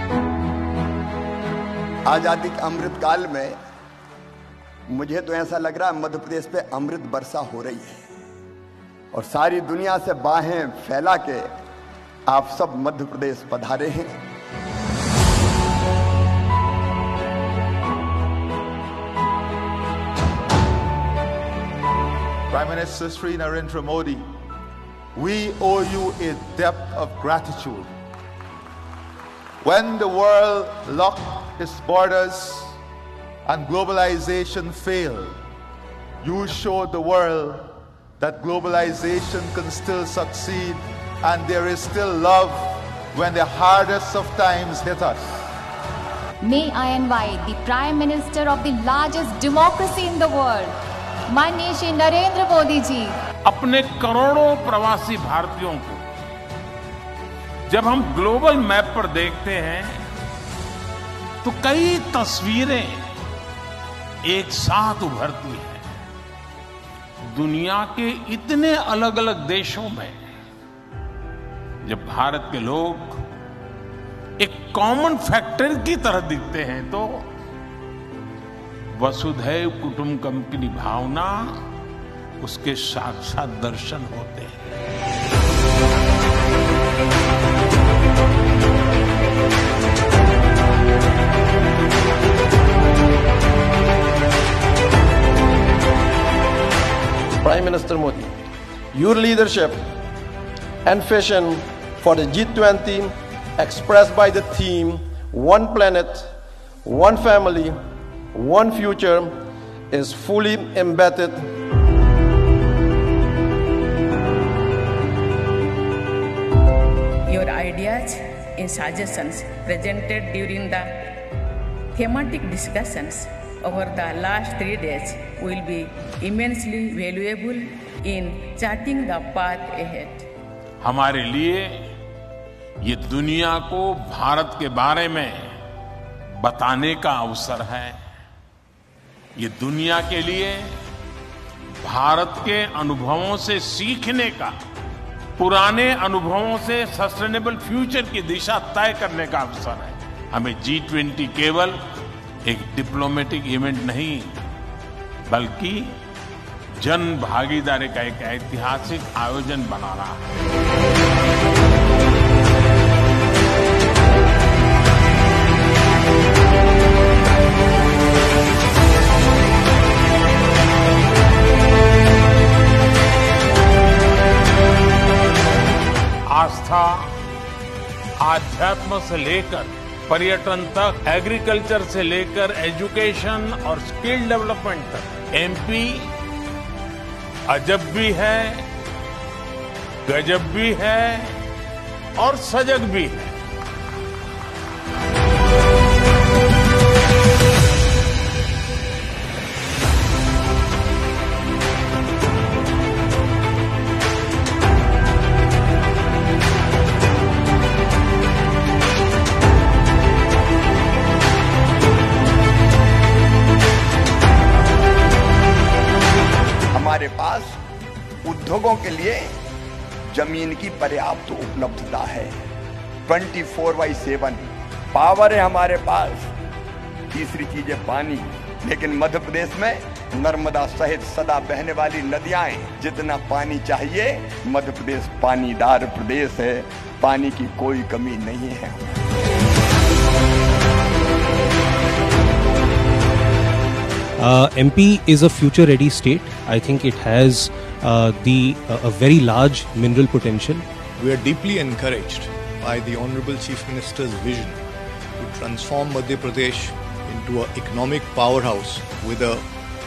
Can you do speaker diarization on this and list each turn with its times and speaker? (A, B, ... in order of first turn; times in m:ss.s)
0:02.0-0:03.6 A
0:04.9-0:08.0 A
0:09.1-0:11.5 A
0:12.3-0:14.2 A
0:22.5-0:24.2 B
0:25.1-0:27.9 B
0:29.6-0:32.8 B
0:33.4-0:35.4 B
0:36.2-0:45.4 B
0:46.4-0:50.7 C
0:51.3-0:53.2 C
0:53.4-0:56.0 D
0:57.7-1:00.0 D
1:01.4-1:03.0 D
1:04.3-1:05.8 D
1:07.3-1:10.2 D
1:11.8-1:13.2 D
1:14.4-1:17.3 D
1:18.9-1:21.7 D
1:22.4-1:24.6 D
1:37.4-1:40.0 E
1:40.8-1:47.8 E
1:48.3-1:49.4 E
1:49.9-1:51.5 E
1:57.3-2:01.2 F
2:01.9-2:10.2 F
2:10.8-2:11.9 D
2:12.8-2:15.6 D
2:16.4-2:18.0 D
2:19.4-2:20.8 D
2:21.8-2:24.5 D
2:25.4-2:31.8 D
2:32.4-2:34.4 D
2:35.3-2:36.0 D
2:36.8-2:40.3 D
2:56.3-2:57.1 D
2:58.2-3:06.1 D
3:07.5-3:08.6 D
3:10.0-3:11.4 D
3:12.2-3:13.3 D
3:36.7-3:37.6 A
3:38.2-3:39.4 A
3:40.1-3:42.4 A
3:43.1-3:46.3 A
3:47.1-3:59.0 A
4:04.2-4:10.6 G
4:11.0-4:14.6 H
4:15.2-4:19.4 H